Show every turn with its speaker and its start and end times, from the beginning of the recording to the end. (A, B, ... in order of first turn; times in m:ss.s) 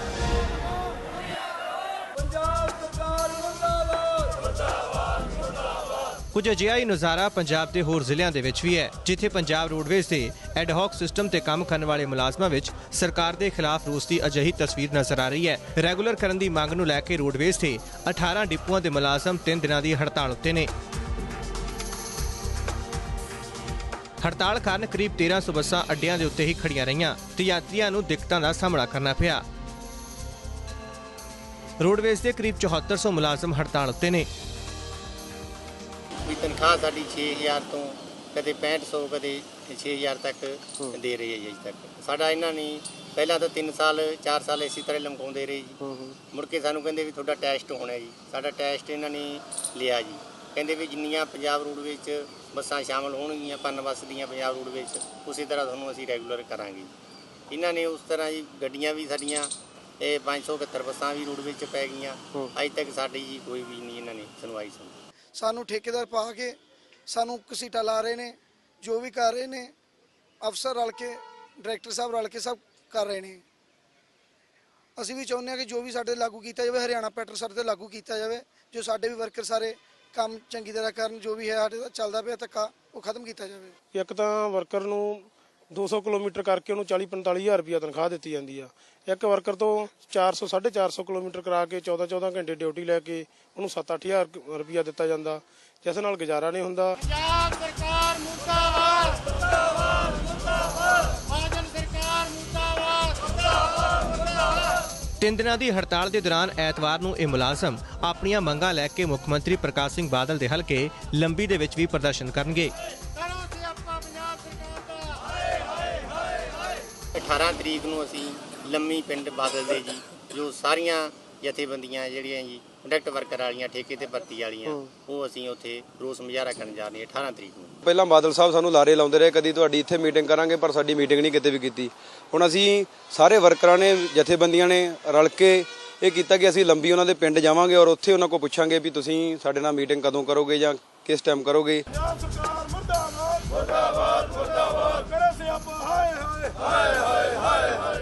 0:06.3-0:20.7 A
0:24.2-0:29.4 A
0:31.8-0:34.3 A
0:36.3-0:56.9 B
0:57.5-1:05.0 B
1:05.4-1:06.6 C
1:07.1-1:09.7 C
1:10.4-1:13.4 C
1:15.0-1:23.7 C
1:23.9-1:37.0 D
1:45.2-1:52.7 A
1:53.2-1:55.3 B
1:57.2-2:07.8 B
2:07.8-2:21.8 E
2:21.9-2:27.8 D